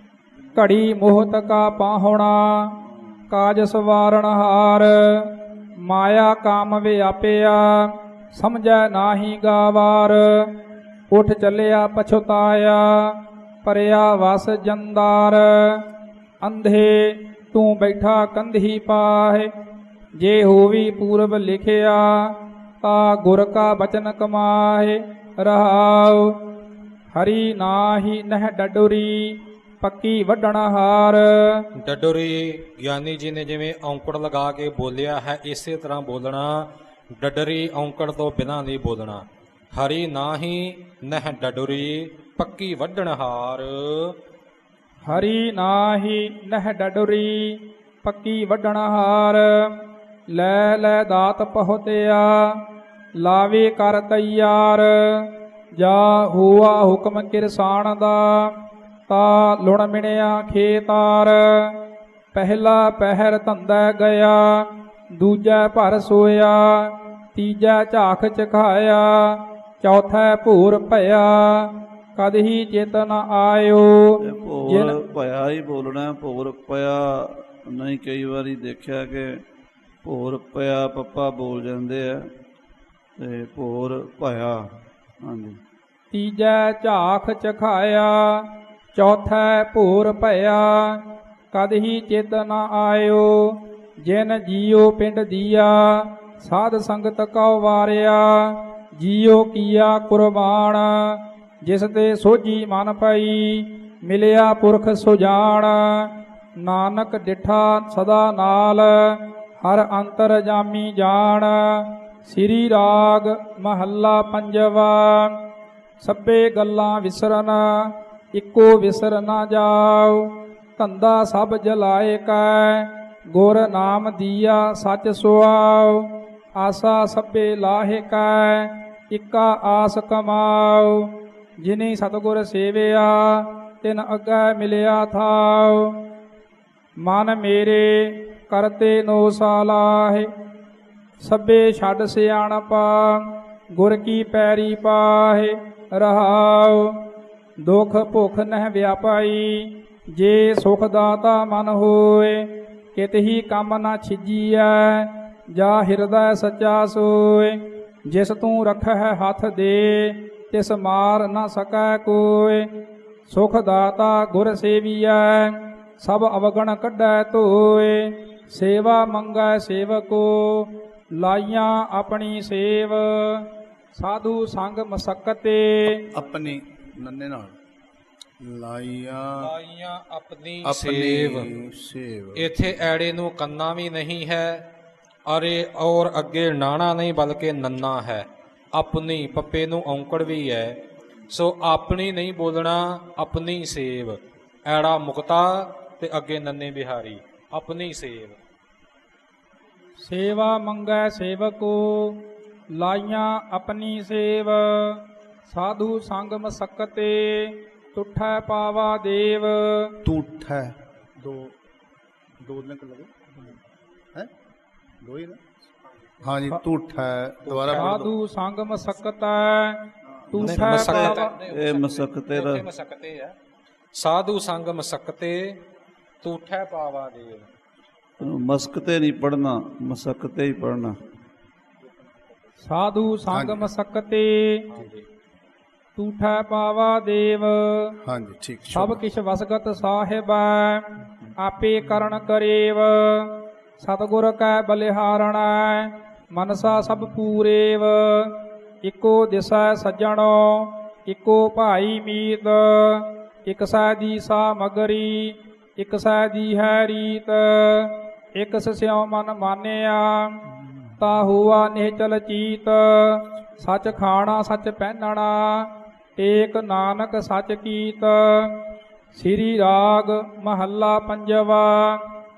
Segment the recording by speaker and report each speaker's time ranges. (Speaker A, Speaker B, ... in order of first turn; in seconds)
Speaker A: 0.6-15.9, 16.4-19.5, 20.1-26.6, 27.1-31.7, 45.0-75.0, 86.1-115.5, 116.0-136.1, 137.0-140.3, 141.2-176.1, 200.0-210.0, 217.7-221.2, 232.6-234.7, 236.0-238.0, 238.7-260.5, 261.0-272.1
Speaker B: 31.8-44.1, 179.4-181.5, 182.4-184.7, 185.3-198.4, 217.5-218.0, 220.4-223.4, 223.9-225.6, 226.2-227.5, 234.7-235.1
Speaker C: 74.2-79.4, 80.0-82.3, 83.2-85.6, 220.4-222.7, 228.2-231.0
Speaker D: 176.1-177.5, 178.4-179.5, 180.6-182.5, 210.0-211.5, 212.4-213.3, 215.0-215.4, 216.2-218.1, 233.3-233.7, 238.0-239.0